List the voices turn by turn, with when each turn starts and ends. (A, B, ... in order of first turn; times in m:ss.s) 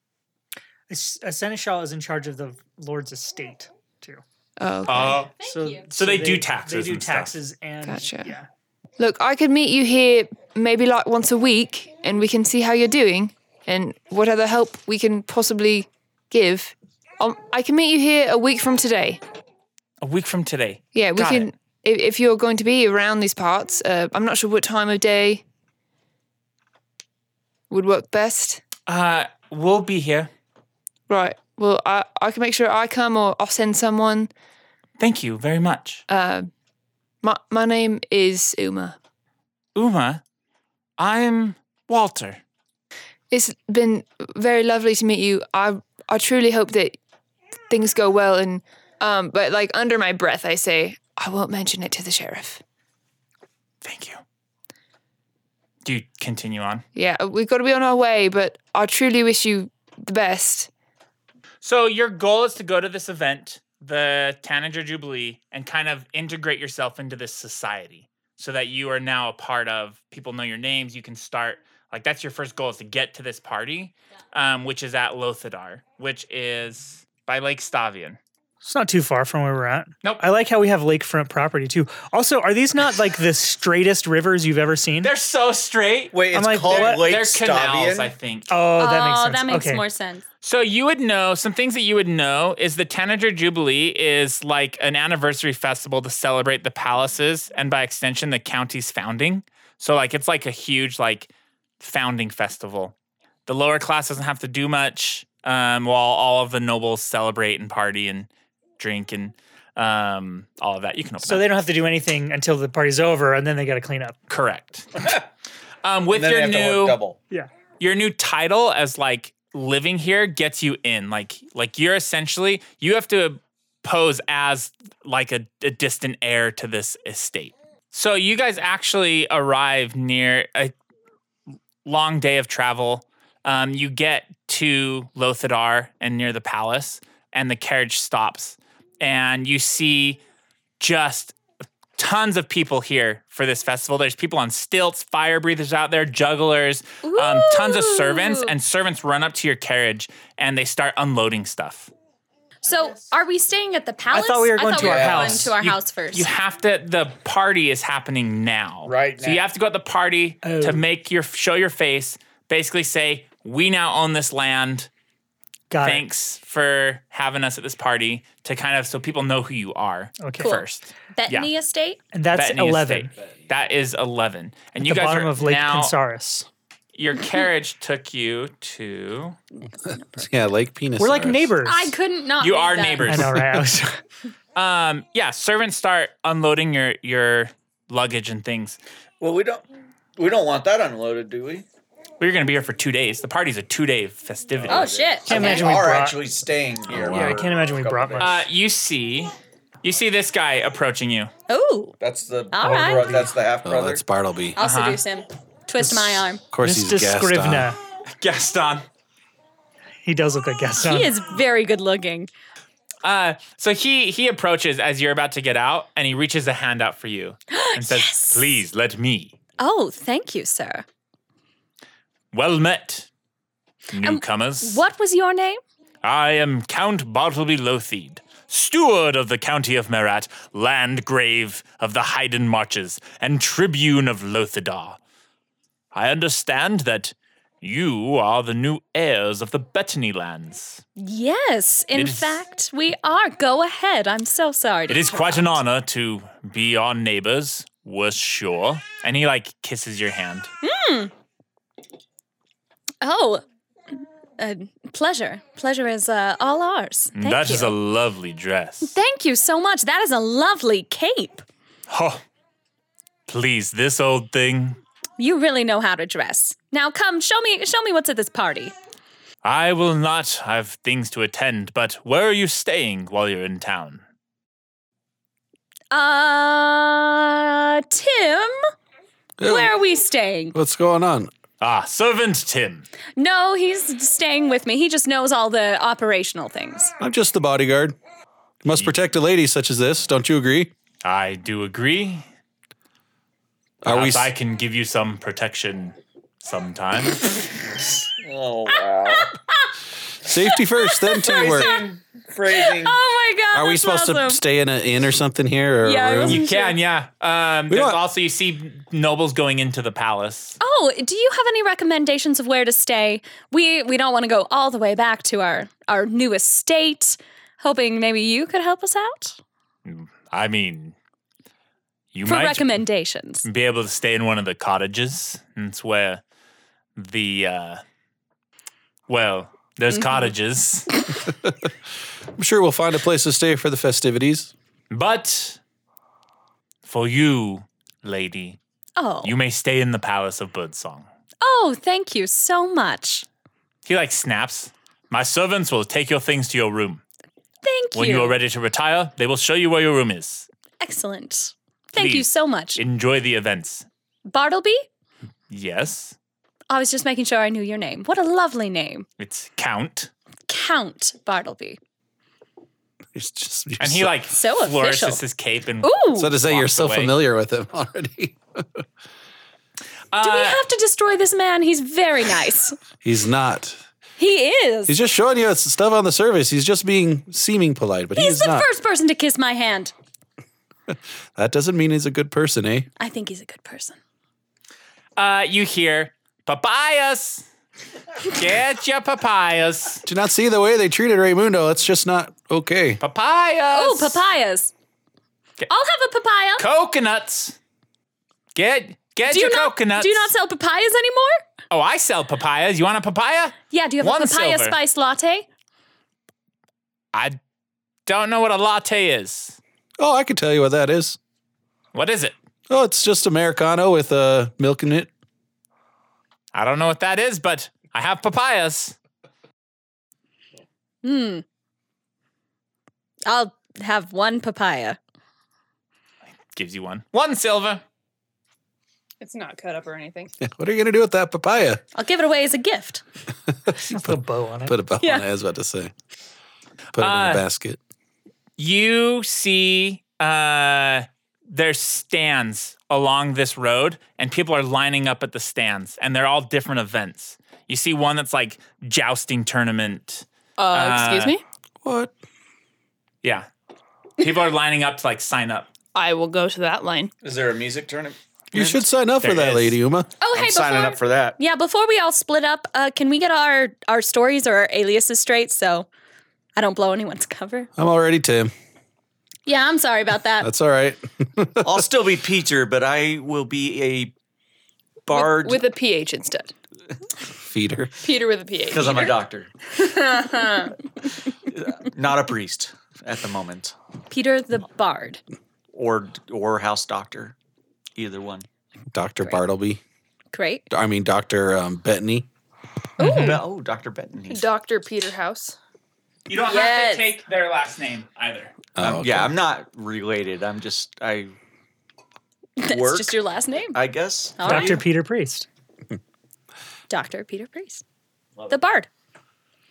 0:00.9-0:04.2 A
0:04.6-0:05.3 B
0:04.8-0:05.3 C
0:05.4-0:05.8 D
0:05.4-0:08.5 A
0:05.9-0:07.3 C
0:07.8-0:08.3 B
0:09.0-0:19.2 B
0:20.0-0:21.5 C
0:20.9-0:25.4 B
0:27.7-0:28.6 B
0:28.9-0:30.3 C
0:31.1-0:34.3 B
0:35.0-0:36.0 C
0:36.1-0:36.5 B
0:37.2-0:39.0 B
0:39.7-0:40.2 C
0:41.0-0:42.4 C
0:43.3-0:47.0 B
0:47.7-0:52.6 B
0:53.8-0:54.2 C
0:55.8-0:56.8 C
0:56.9-1:00.7 B
1:01.6-1:18.2 C
1:18.6-1:25.1 A
1:25.0-1:26.2 C
1:26.1-1:28.1 E
1:26.3-1:27.0 A
1:26.7-1:28.5 C
1:28.5-1:29.8 A
1:28.8-1:30.2 D
1:30.4-1:42.9 C
1:43.4-1:48.3 C
1:48.8-1:51.5 C
1:51.2-1:54.2 A
1:54.3-1:55.2 C
1:55.8-1:57.0 C
1:56.1-1:57.2 E
1:57.8-2:10.7 C
2:11.8-2:20.2 C
2:20.8-2:21.4 C
2:22.0-2:31.9 C
2:27.0-2:28.5 D
2:32.6-2:36.3 D
2:34.1-2:35.5 A
2:34.8-2:35.5 E
2:35.6-2:44.9 C
2:38.8-2:39.4 E
2:40.4-2:40.8 A
2:45.7-2:46.0 A
2:45.8-2:51.5 C
2:50.2-2:50.5 A
2:51.1-2:52.0 D
2:52.1-2:53.1 A
2:52.3-2:55.9 C
2:54.8-2:56.5 A
2:56.9-2:59.4 C
2:59.8-3:00.2 D
3:00.1-3:01.5 F
3:01.0-3:01.9 A
3:01.6-3:03.2 D
3:02.4-3:03.6 C
3:03.0-3:04.0 A
3:04.5-3:08.8 C
3:09.2-3:11.6 E
3:12.2-3:14.9 C
3:14.6-3:18.4 E
3:14.7-3:15.7 D
3:15.2-3:16.2 A
3:16.9-3:17.4 F
3:17.0-3:18.3 A
3:18.2-3:21.3 C
3:21.5-3:22.0 D
3:22.0-3:24.0 E
3:22.5-3:23.2 D
3:22.6-3:23.3 A
3:23.6-3:24.6 F
3:24.6-3:26.4 D
3:24.6-3:25.0 C
3:26.5-3:27.7 F
3:26.6-3:27.8 A
3:28.2-3:28.9 C
3:30.0-3:31.1 A
3:30.8-3:32.3 D
3:33.0-3:39.3 C
3:37.5-3:38.5 D
3:39.6-3:40.8 D
3:42.3-3:43.1 C
3:43.9-3:44.8 C
3:44.0-3:45.6 D
3:46.0-3:55.0 C
3:55.9-4:00.8 C
4:01.0-4:05.6 D
4:01.9-4:02.4 C
4:04.9-4:10.5 C
4:10.6-4:11.1 D
4:13.0-4:13.4 D
4:14.4-4:17.7 D
4:17.2-4:18.9 C
4:18.8-4:21.4 D
4:21.9-4:22.2 C
4:23.3-4:24.8 C
4:25.2-4:28.7 D
4:29.4-4:34.0 C
4:35.9-4:38.6 D
4:39.4-4:39.7 F
4:39.4-4:40.6 D
4:40.5-4:41.3 F
4:41.6-4:42.8 C
4:43.2-4:46.9 D
4:47.0-4:48.0 F
4:48.6-4:50.7 F
4:51.0-4:52.2 C
4:53.8-4:54.3 F
4:53.8-4:57.4 C
4:58.2-4:59.3 E
4:58.7-4:59.7 D
5:00.2-5:01.8 F
5:00.3-5:01.8 D
5:01.2-5:03.0 E
5:02.5-5:04.4 D
5:03.5-5:06.4 F
5:05.8-5:06.8 D
5:06.2-5:10.6 C
5:07.7-5:08.0 F
5:10.6-5:19.4 D
5:19.8-5:20.9 C
5:22.1-5:22.8 C
5:22.2-5:23.4 D
5:23.4-5:26.2 C
5:27.0-5:27.8 C
5:29.1-5:30.9 C
5:29.9-5:30.3 D
5:32.4-5:34.5 F
5:34.9-5:35.6 C
5:36.8-5:38.6 C
5:39.0-5:39.3 D
5:39.2-5:41.0 C
5:41.4-5:43.2 D
5:43.8-5:47.0 C
5:47.6-5:48.3 D
5:47.9-5:50.5 C
5:50.8-5:52.8 D
5:51.9-5:53.8 C
5:54.3-5:54.8 D
5:55.5-5:56.2 C
5:56.7-5:59.0 D
5:59.2-6:00.1 C
6:00.5-6:01.8 D
6:03.1-6:04.1 F
6:03.8-6:07.1 C
6:04.3-6:05.2 D
6:05.8-6:06.3 D
6:06.2-6:08.8 F
6:10.1-6:10.6 C
6:10.2-6:12.8 D
6:13.0-6:13.8 F
6:14.2-6:15.0 D
6:14.9-6:18.7 F
6:18.1-6:19.9 D
6:20.9-6:22.9 F
6:23.0-6:24.0 D
6:25.2-6:27.4 C
6:28.2-6:30.0 C
6:30.0-6:33.0 F
6:33.0-6:34.2 C
6:33.7-6:34.7 D
6:35.7-6:36.6 D
6:36.6-6:37.6 C
6:38.5-6:40.3 C
6:39.3-6:41.4 D
6:41.7-6:44.8 C
6:43.7-6:45.5 D
6:48.0-6:49.6 C
6:50.0-6:51.2 F
6:51.9-6:52.3 C
6:52.7-6:55.1 F
6:56.5-6:59.0 C
7:01.0-7:01.4 D
7:03.3-7:05.0 D
7:06.4-7:07.8 C
7:09.2-7:10.3 B
7:10.4-7:11.8 F
7:11.9-7:13.0 D
7:13.7-7:15.9 F
7:13.8-7:14.7 A
7:16.9-7:17.8 F
7:17.0-7:17.4 C
7:18.6-7:31.4 C
7:30.6-7:31.4 B
7:31.8-7:32.1 F
7:33.2-7:33.5 C
7:34.2-7:35.7 C
7:35.9-7:37.1 B
7:37.2-7:38.8 E
7:38.5-7:40.1 F
7:39.2-7:39.8 C
7:40.2-7:45.9 D
7:40.3-7:41.4 E
7:46.6-7:47.7 D
7:47.8-7:48.5 F
7:49.4-7:50.5 D
7:50.4-7:51.8 F
7:51.6-7:54.1 E
7:55.0-7:55.6 E
7:55.1-7:56.5 B
7:57.3-7:57.9 F
7:58.0-7:59.2 B
7:58.7-7:59.5 E
7:59.7-8:00.8 B
8:01.5-8:03.7 E
8:04.1-8:05.2 D
8:05.7-8:07.3 E
8:08.0-8:08.5 E
8:08.9-8:09.8 F
8:10.3-8:10.6 D
8:10.7-8:12.3 F
8:13.0-8:13.4 D
8:13.0-8:13.4 A
8:13.0-8:14.5 E
8:14.3-8:15.6 B
8:16.3-8:18.5 C
8:16.5-8:17.0 D
8:18.8-8:19.3 F
8:18.8-8:21.3 E
8:22.6-8:23.8 D
8:22.6-8:23.2 E
8:23.7-8:24.8 E
8:24.4-8:24.8 D
8:24.4-8:25.4 A
8:26.9-8:27.8 D
8:28.5-8:28.9 D